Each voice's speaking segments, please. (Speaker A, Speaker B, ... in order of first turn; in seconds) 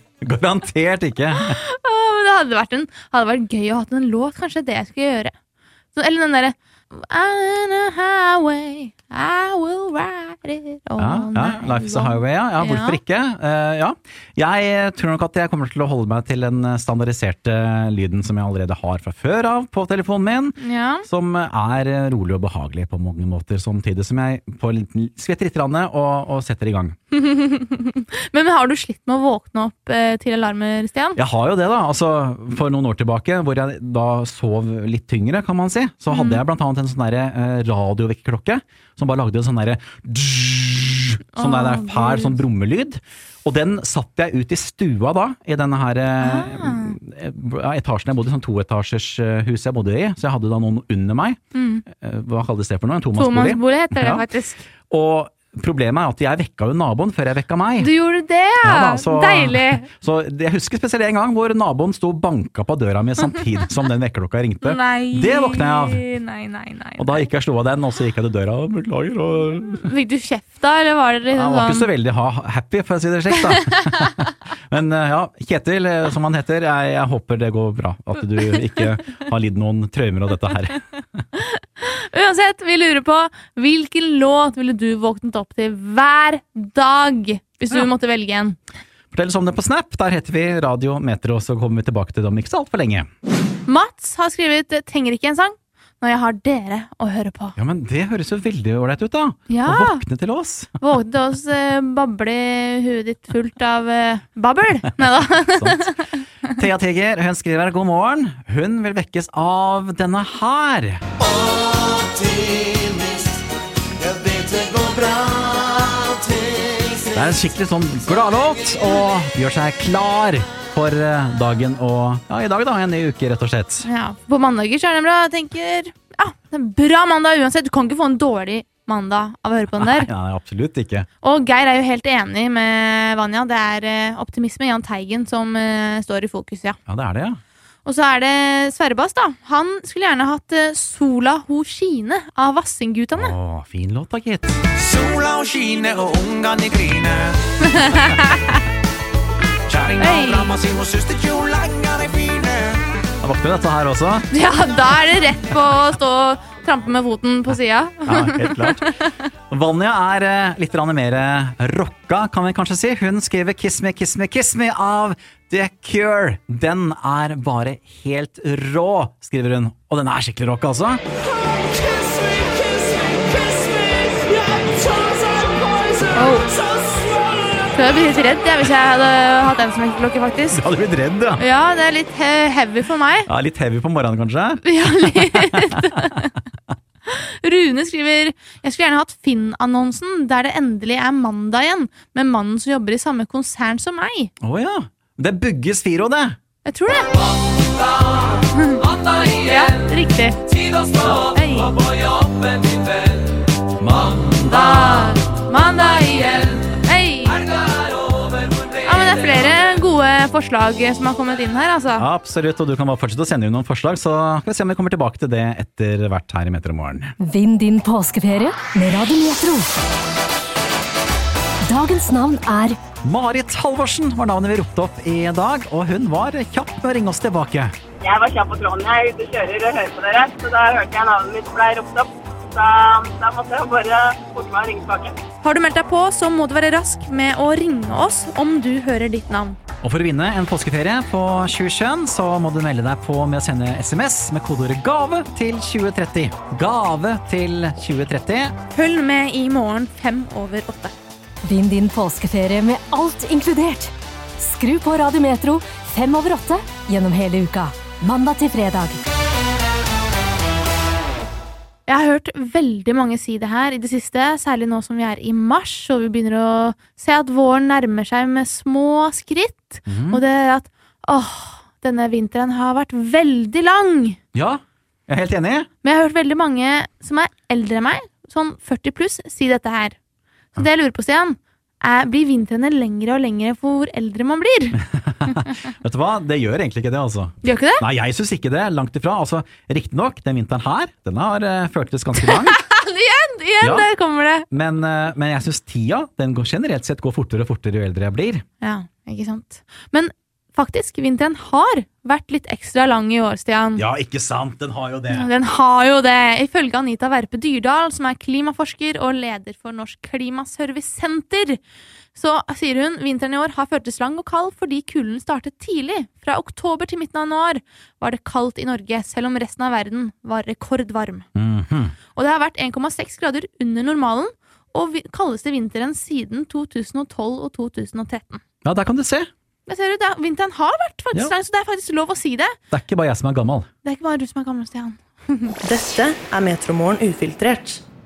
Speaker A: 0.2-1.6, 11.0-26.9, 31.1-51.4, 51.9-54.2, 54.9-57.9, 58.6-66.0, 67.0-69.9, 71.3-80.8, 89.1-93.1, 97.6-100.8, 105.3-105.8, 106.5-111.0, 117.1-123.9, 129.7-131.1, 136.9-137.4, 143.1-144.6, 153.2-154.3, 158.0-158.8, 159.5-171.0, 171.9-172.7, 173.5-176.0, 180.5-181.4, 183.3-186.2, 194.4-196.4, 203.8-205.2, 212.0-217.1, 223.0-227.7, 239.8-248.5, 269.9-270.2, 274.3-275.7, 284.8-292.6, 293.6-293.9, 294.5-298.4, 303.8-305.3, 321.3-321.9, 328.6-329.3, 332.7-333.7
Speaker B: 1.3-5.3, 5.9-13.0, 20.6-21.0, 27.1-31.2, 36.1-36.4, 41.4-42.4, 46.2-47.0, 51.5-51.8, 53.1-54.6, 57.8-59.9, 64.6-67.3, 69.8-71.9, 73.4-74.3, 81.3-88.6, 93.7-97.6, 99.5-100.0, 100.8-106.5, 123.8-130.1, 131.2-136.8, 137.8-143.3, 147.6-148.6, 150.0-150.6, 154.3-159.1, 176.1-176.5, 177.6-180.6, 181.4-183.3, 184.6-186.3, 187.1-194.3, 196.6-197.3, 198.3-201.8, 204.4-207.4, 208.8-212.1, 235.4-239.6, 248.7-250.9, 261.9-274.2, 275.8-279.9, 280.5-284.8, 287.4-287.8, 292.2-294.4, 298.6-303.8, 305.1-311.6, 312.1-321.2, 322.1-328.4, 329.6-332.6, 333.8-335.6
Speaker C: 111.3-113.3, 114.1-117.0, 144.8-147.4, 149.7-152.8
Speaker D: 217.2-219.7, 221.7-222.8, 251.4-259.0
Speaker E: 228.0-235.2
Speaker F: 335.6-337.8